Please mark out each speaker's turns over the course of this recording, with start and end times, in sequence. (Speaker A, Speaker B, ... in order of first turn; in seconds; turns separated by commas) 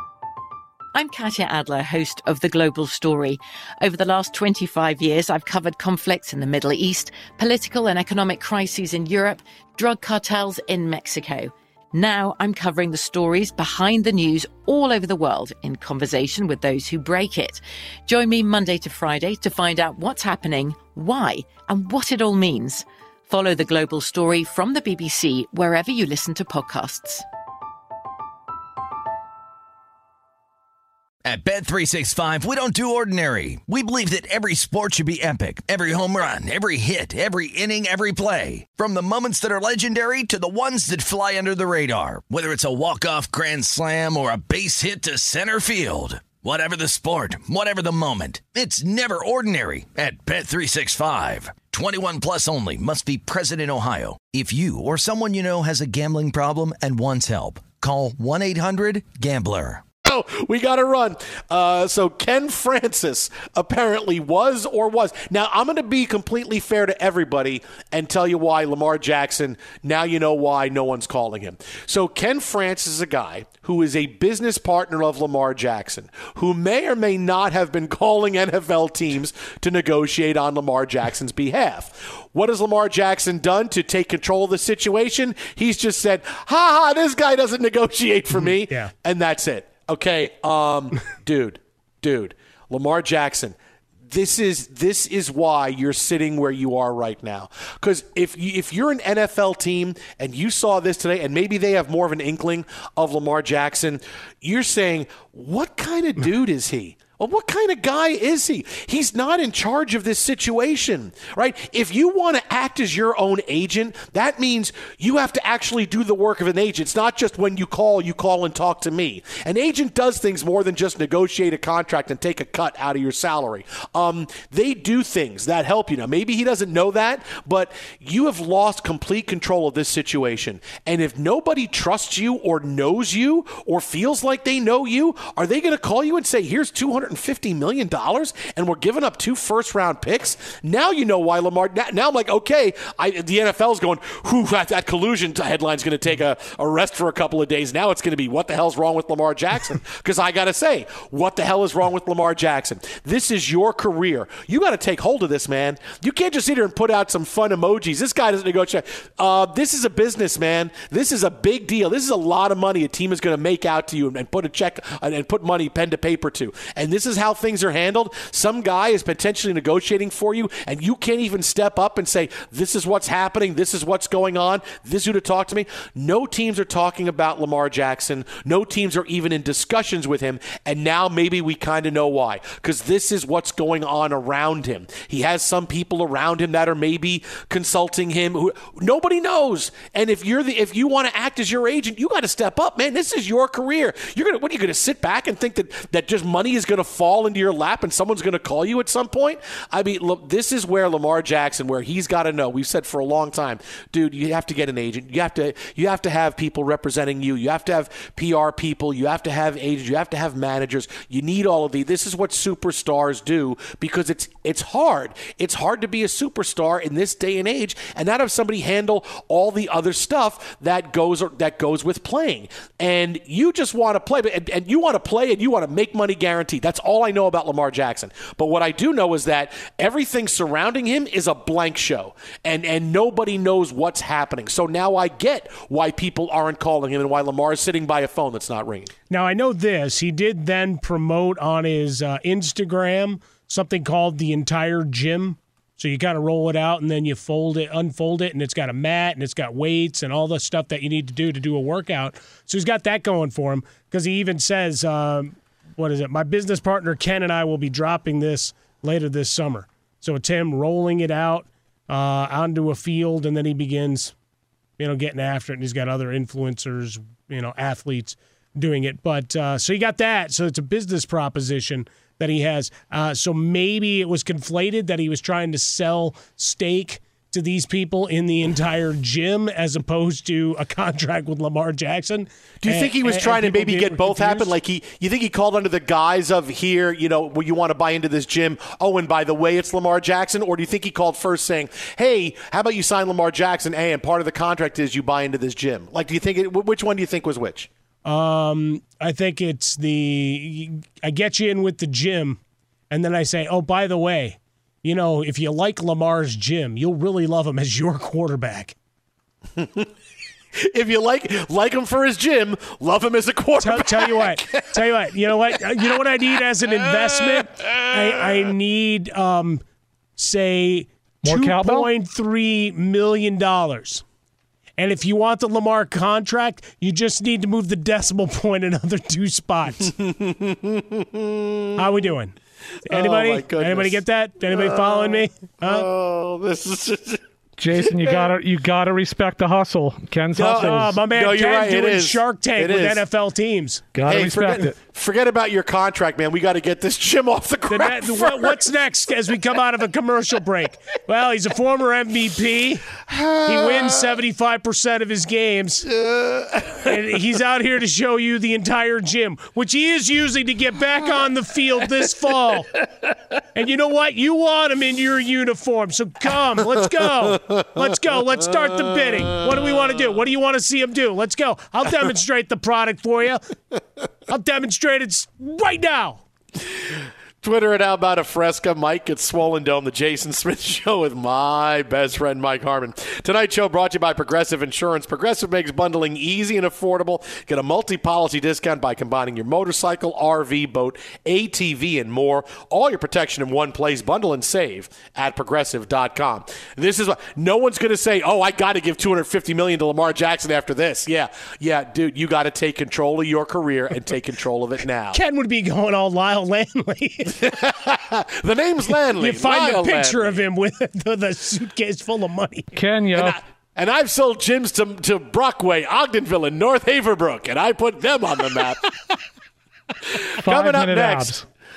Speaker A: 0.9-27.2, Speaker B: 31.2-59.8, Speaker C: 60.0-93.6, Speaker D: 88.5-88.9, Speaker C: 94.1-238.9, Speaker D: 239.1-264.1, Speaker D: 264.8-284.5, Speaker C: 282.6-297.7, Speaker D: 298.1-302.4, Speaker D: 302.9-308.8, Speaker C: 309.6-309.9, Speaker C: 310.6-314.7, Speaker D: 313.6-319.6, Speaker C: 316.6-317.9, Speaker D: 320.2-324.0, Speaker E: 321.2-321.9, Speaker D: 324.8-329.9, Speaker C: 329.9-331.8, Speaker D: 331.8-332.4, Speaker C: 332.9-337.2, Speaker D: 332.9-335.9, Speaker E: 337.6-341.0, Speaker C: 337.8-338.3, Speaker C: 340.4-343.0, Speaker D: 340.4-343.9, Speaker E: 343.9-344.8, Speaker C: 344.1-348.6, Speaker D: 347.7-355.9, Speaker C: 353.1-354.0, Speaker C: 355.9-356.8, Speaker D: 356.8-362.7, Speaker D: 363.6-373.6, Speaker C: 367.2-367.7, Speaker D: 374.3-376.2, Speaker C: 376.7-405.2, Speaker D: 405.1-407.4, Speaker C: 407.3-410.5, Speaker D: 409.1-412.8, Speaker E: 412.8-413.4, Speaker C: 413.2-418.9, Speaker C: 420.1-421.3, Speaker E: 420.4-421.5